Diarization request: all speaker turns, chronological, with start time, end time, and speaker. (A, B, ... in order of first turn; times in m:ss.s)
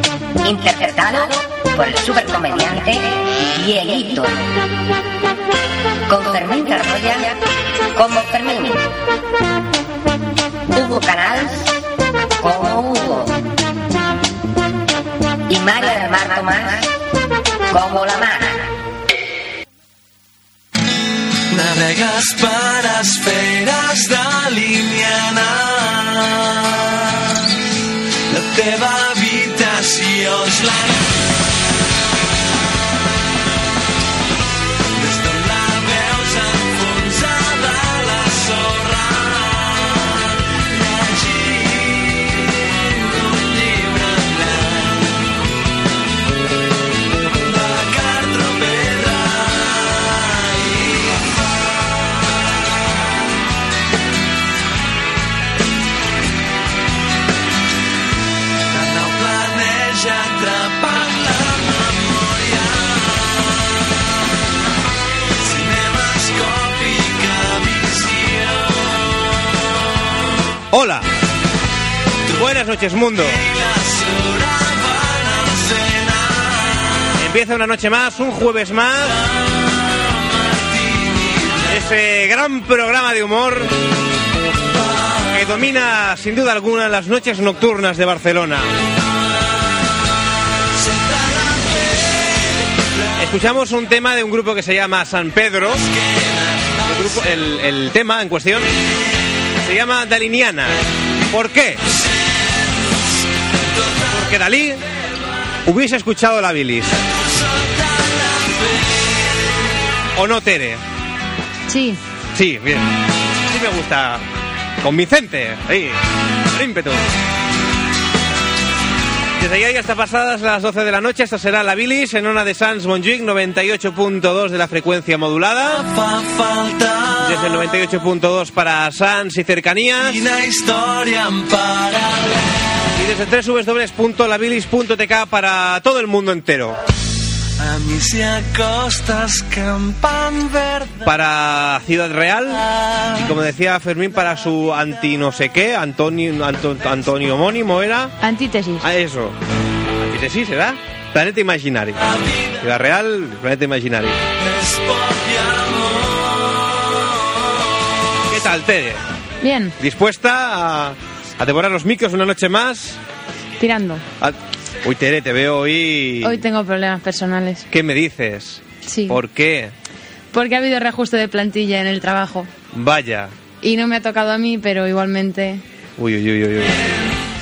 0:00.4-0:04.3 A
0:06.1-0:07.4 A
0:08.0-0:08.9 A
0:10.7-0:11.7 A
0:12.4-0:13.4 A
0:15.5-0:16.9 A
0:17.7-0:18.7 A
0:21.5-0:27.4 B
0:28.3-0:31.1 B
0:34.9-0:45.3 B
0:47.4-0:51.2 B
0:58.7-1:03.6 B
1:05.4-1:09.7 B
1:10.7-1:11.1 C
1:12.4-1:13.4 C
1:13.2-1:17.1 B
1:17.1-1:19.2 C
1:19.1-1:21.8 B
1:21.7-1:23.7 C
1:24.8-1:25.3 B
1:25.3-1:28.8 C
1:30.8-1:32.6 B
1:33.2-1:35.8 C
1:35.9-1:37.2 B
1:36.8-1:38.7 C
1:39.6-1:40.8 C
1:41.3-1:41.8 C
1:44.1-1:44.8 C
1:45.6-1:47.0 C
1:47.4-1:49.0 B
1:50.2-1:50.8 C
1:51.7-1:52.0 D
1:52.4-1:52.9 C
1:53.5-1:54.2 C
1:54.8-1:56.0 C
1:56.5-1:57.0 C
1:59.4-2:05.8 C
2:05.7-2:07.6 B
2:07.2-2:10.2 C
2:10.0-2:12.8 B
2:13.0-2:16.8 C
2:17.6-2:21.1 B
2:21.0-2:22.6 C
2:22.8-2:23.2 B
2:23.2-2:28.1 C
2:28.2-2:28.9 D
2:28.8-2:29.4 C
2:30.0-2:32.0 C
2:32.1-2:32.5 B
2:32.6-2:34.2 C
2:34.4-2:37.1 B
2:38.3-2:39.0 C
2:39.4-2:39.8 D
2:39.8-2:43.0 C
2:43.6-2:44.0 D
2:44.2-2:46.4 C
2:46.2-2:47.6 D
2:47.7-2:49.7 C
2:48.9-2:49.2 D
2:50.3-2:52.5 D
2:52.7-2:53.3 C
2:53.6-2:55.6 D
2:56.0-2:56.8 C